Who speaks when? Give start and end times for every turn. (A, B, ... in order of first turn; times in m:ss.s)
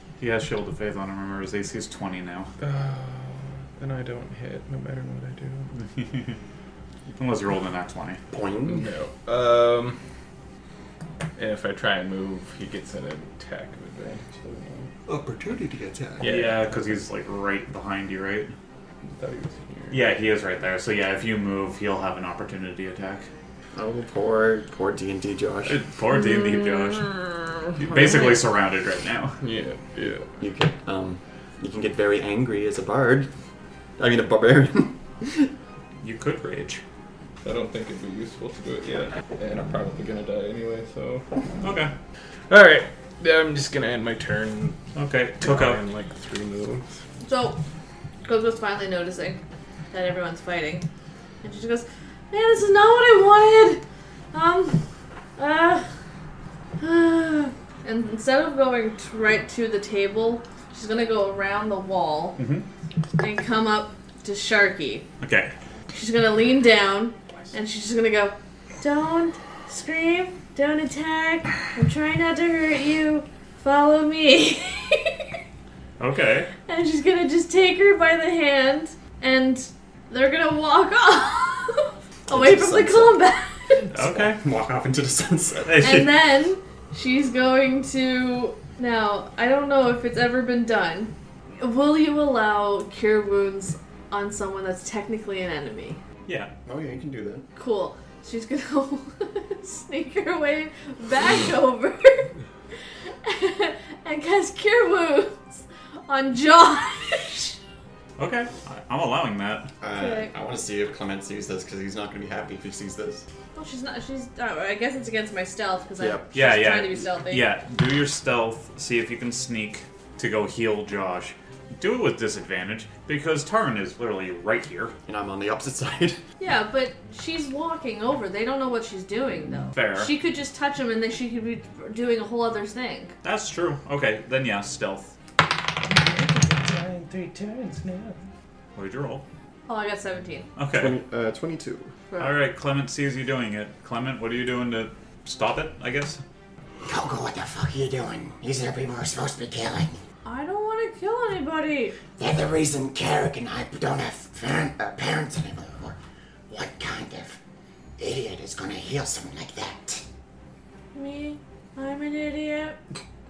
0:00.2-0:02.5 A
0:02.6-0:05.7 B
0:05.7-0:06.4 A
0:07.2-0:08.2 A
0:08.3-0:08.9 C
0:08.6-0:10.0 B
0:11.4-0:14.9 B
0:15.1-0:16.2 C
0:16.2-0:16.7 B
0:16.2-0:18.5 A
0:19.2-0:20.0 B
0:19.9-0:23.3 A
0:23.7-0:25.8 C
0:25.6-0:27.1 A
0:27.0-0:28.5 B
0:27.8-0:29.4 A
0:29.4-0:30.3 B
0:30.4-0:33.3 C
0:34.0-0:35.5 C
0:36.0-0:36.8 A
0:37.4-0:41.3 B
0:41.6-0:41.9 A
0:42.5-0:44.8 B
0:44.9-0:45.8 A
0:45.4-0:46.9 B
0:47.2-0:47.6 D
0:48.2-0:49.4 D
0:49.9-0:50.9 D
0:51.4-0:53.8 D
0:54.3-0:54.8 D
0:55.4-0:55.9 D
0:56.8-1:02.4 D
1:02.4-1:02.7 A
1:03.2-1:05.0 D
1:05.2-1:05.5 A
1:05.9-1:15.4 D
1:16.0-1:16.5 A
1:16.7-1:23.9 D
1:22.3-1:23.2 C
1:23.9-1:24.4 A
1:23.9-1:26.1 C
1:25.6-1:26.0 A
1:25.8-1:36.0 D
1:36.3-1:36.5 A
1:36.6-1:37.4 C
1:37.6-1:42.3 D
1:43.2-1:47.6 D
1:48.2-1:49.7 A
1:49.8-1:53.2 C
1:49.9-1:50.3 D
1:53.5-1:57.4 D
1:56.0-1:56.4 C
1:56.3-2:04.9 A
2:05.1-2:06.2 C
2:06.4-2:13.1 D
2:09.7-2:10.1 A
2:13.2-2:15.1 A
2:15.8-2:18.2 B
2:18.7-2:19.2 A
2:19.7-2:20.5 D
2:20.6-2:21.0 A
2:20.7-2:21.9 C
2:22.2-2:26.2 A
2:26.9-2:30.0 E
2:30.2-2:32.0 D
2:32.2-2:36.0 E
2:36.5-2:37.4 E
2:38.0-2:40.0 E
2:40.9-2:42.8 D